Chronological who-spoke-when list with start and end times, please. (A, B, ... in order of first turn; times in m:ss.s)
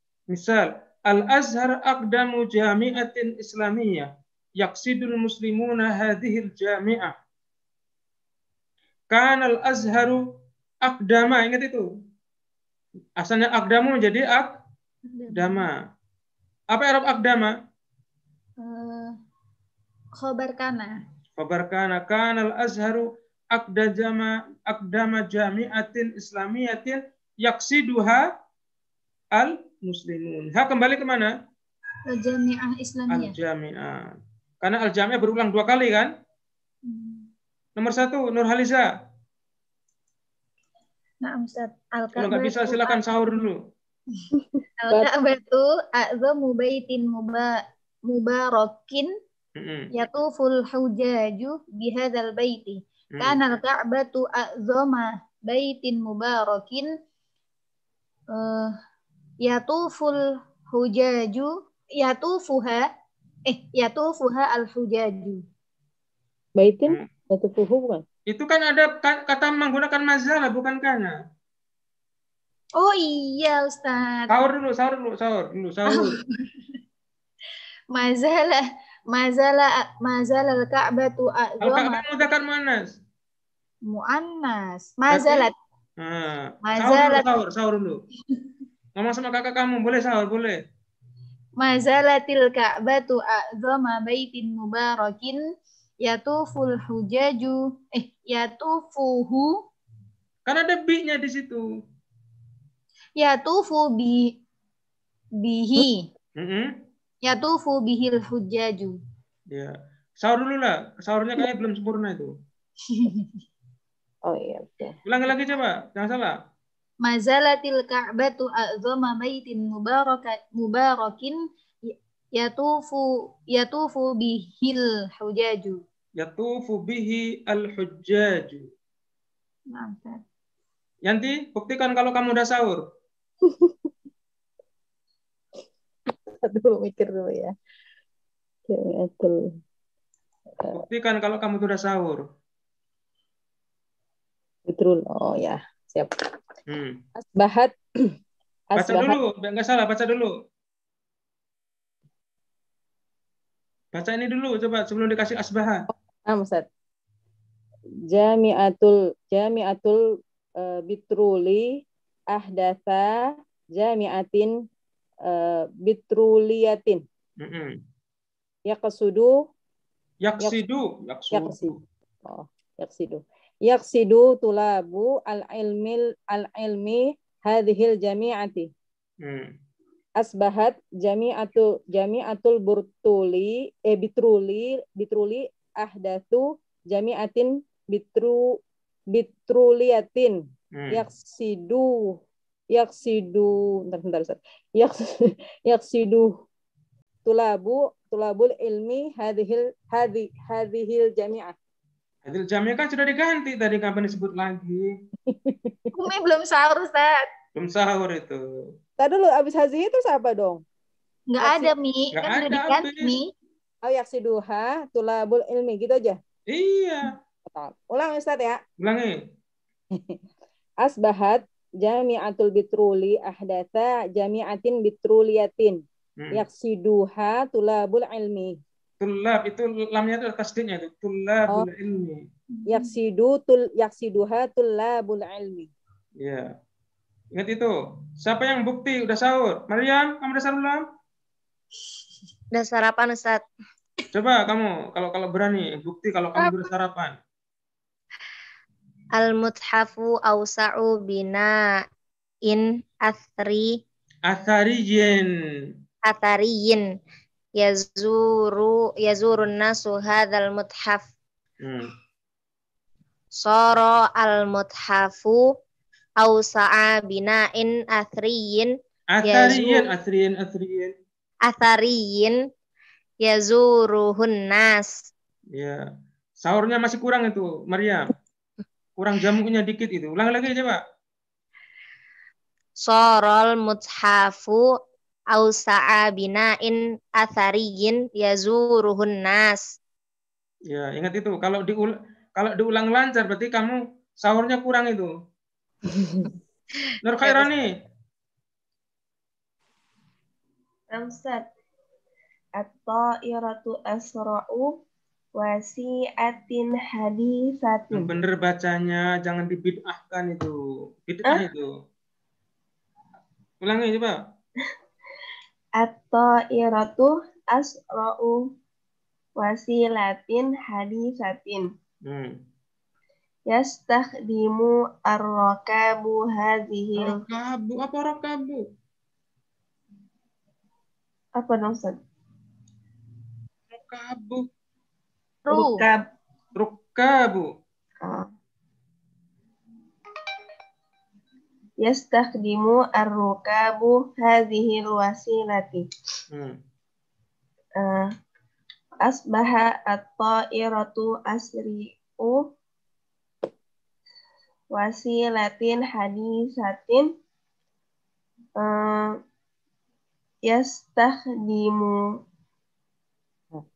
0:00.3-0:07.2 A
0:09.1-0:10.2 A
0:10.8-0:11.9 A
0:13.2-0:14.5 A
0:15.1-0:15.6 B
0:15.3-0:15.8 A
0:16.7-0:17.5 A
0:18.6-0:19.1 B
0:20.2-0:20.9 B
0:21.4-0:28.3 A
0:29.4-0:31.3 A
0:32.1-0:33.4 B
0:33.1-0:36.1 A
0:36.9-0:37.3 B
0:37.8-0:38.9 A
0:41.2-0:43.5 B
0:42.2-0:43.6 A
0:44.4-0:45.1 C
0:44.8-0:47.5 B
0:48.1-0:49.1 B
0:49.6-0:49.9 A
0:49.9-0:56.9 B
0:58.3-0:58.7 B
0:59.4-1:02.9 B
1:03.5-1:05.4 B
1:06.6-1:08.0 C
1:08.3-1:11.1 A
1:12.8-1:14.4 B
1:14.3-1:16.2 A
1:15.9-1:16.5 B
1:17.9-1:22.2 B
1:21.6-1:23.0 A
1:23.9-1:25.5 B
1:25.1-1:25.5 A
1:26.0-1:28.0 A
1:26.7-1:27.3 B
1:29.0-1:30.6 A
1:31.6-1:35.4 B
1:36.0-1:39.5 B
1:40.5-1:41.6 A
1:43.2-1:44.3 B
1:45.4-1:46.1 B
1:46.4-1:46.8 A
1:47.2-1:49.0 B
1:49.5-1:52.3 A
1:52.9-1:53.4 B
1:54.3-1:55.0 C
1:55.1-1:56.3 A
1:57.0-2:05.8 B
2:06.2-2:08.7 A
2:09.7-2:10.2 B
2:11.1-2:12.8 A
2:13.5-2:13.9 C
2:16.3-2:17.5 C
2:18.7-2:19.4 C
2:20.6-2:20.8 C
2:20.7-2:22.2 A
2:24.7-2:26.1 C
2:26.7-2:27.0 A
2:27.2-2:27.7 C
2:28.7-2:29.2 C
2:28.8-2:30.3 A
2:33.9-2:35.8 A
2:36.3-2:36.7 C
2:38.1-2:40.0 C
2:40.6-2:41.7 C
2:42.3-2:43.1 C
2:43.8-2:44.5 C
2:45.3-2:47.0 C
2:47.4-2:47.8 A
2:48.7-2:49.4 C
2:50.2-2:51.8 A
2:51.3-2:51.7 C
2:52.3-2:58.7 C
2:59.2-2:59.5 A
3:00.2-3:08.5 C
3:09.1-3:10.4 C
3:10.7-3:11.0 A
3:10.9-3:12.2 C
3:12.7-3:16.3 C
3:17.2-3:21.6 C
3:22.3-3:24.9 A
3:25.3-3:25.9 C
3:26.0-3:27.2 B
3:27.6-3:28.4 A
3:29.0-3:30.6 C
3:31.3-3:33.3 B
3:31.4-3:31.7 C
3:32.2-3:33.2 A
3:33.8-3:36.2 C
3:36.5-3:37.1 A
3:37.5-3:38.6 C
3:38.8-3:39.2 A
3:40.8-3:45.8 C
3:46.2-3:46.4 A
3:46.3-3:48.6 C
3:49.0-3:52.2 A
3:52.6-3:52.9 B
3:52.7-3:55.7 C
3:56.2-3:56.5 A
3:57.4-4:00.8 A
4:02.5-4:03.4 D
4:04.1-4:07.2 A
4:09.2-4:11.5 D
4:12.5-4:13.7 D
4:14.3-4:15.3 A
4:16.1-4:16.8 D
4:17.6-4:21.1 D
4:21.6-4:21.9 A
4:23.4-4:25.4 D
4:26.2-4:28.7 D
4:29.1-4:30.9 A
4:29.2-4:29.9 D
4:31.5-4:32.4 D
4:33.2-4:34.9 D
4:35.6-4:35.8 A
4:36.4-4:38.1 A
4:39.0-4:40.8 A
4:42.8-4:44.7 D
4:45.3-4:49.6 D
4:50.7-4:55.1 A
4:55.9-4:56.3 C
4:57.0-4:57.6 A
5:00.9-5:01.4 E
5:02.6-5:04.7 E
5:05.4-5:08.1 E
5:07.9-5:11.7 A
5:13.6-5:14.2 A
5:15.8-5:18.4 E
5:19.4-5:21.6 E
5:22.1-5:22.4 A
5:23.5-5:27.2 E
5:27.0-5:28.6 A
5:31.4-5:32.0 E
5:33.7-5:34.5 A
5:35.5-5:35.8 B
5:35.5-5:36.0 E
5:36.6-5:37.5 A
5:38.0-5:38.3 E
5:41.8-5:45.8 E
5:46.3-5:46.6 A
5:47.8-5:48.1 E
5:49.0-5:52.5 E
5:54.7-5:57.1 E
5:58.6-5:59.1 E
6:00.5-6:02.0 E